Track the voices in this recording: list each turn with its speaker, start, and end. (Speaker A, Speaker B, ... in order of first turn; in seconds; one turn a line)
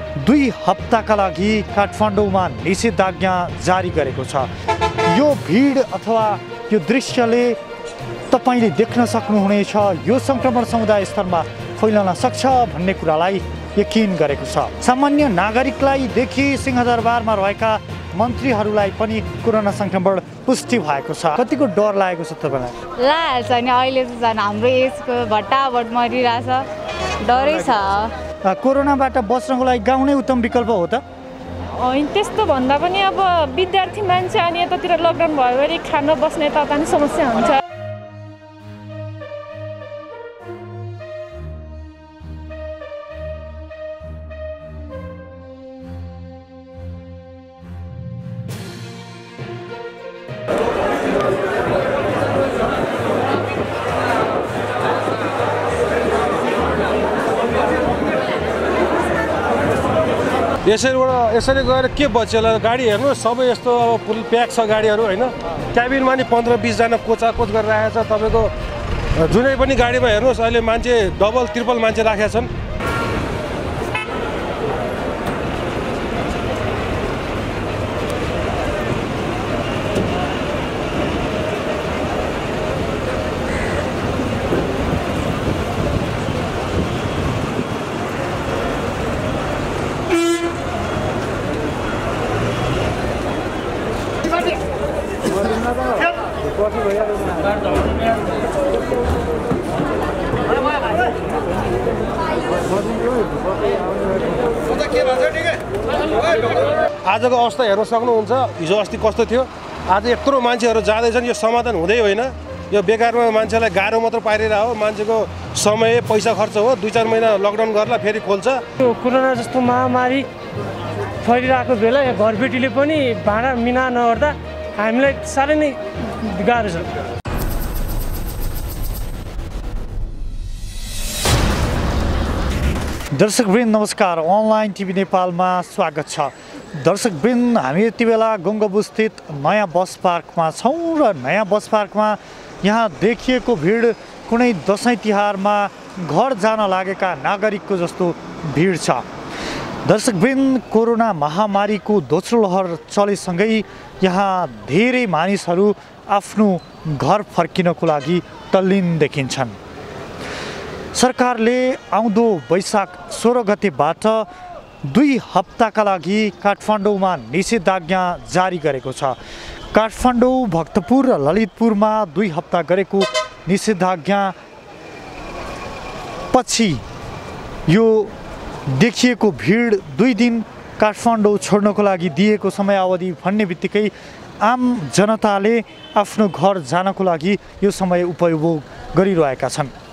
Speaker A: 0.2-4.5
Speaker A: 5.1-7.6
Speaker A: 8.3-22.8
Speaker B: 23.0-26.7
Speaker B: 27.2-28.2
Speaker A: 28.4-31.0
Speaker C: 31.8-37.6
Speaker D: 60.6-68.5
Speaker D: 69.2-72.5
Speaker D: 107.0-118.6
Speaker E: 118.8-120.3
Speaker E: 121.2-126.9
Speaker C: 126.0-126.3
Speaker A: 133.1-149.1
Speaker A: 149.8-159.6
Speaker A: 160.9-164.3
Speaker A: 164.8-169.2
Speaker A: 169.7-174.3
Speaker A: 176.3-176.8
Speaker A: 177.7-178.1
Speaker A: 178.7-189.7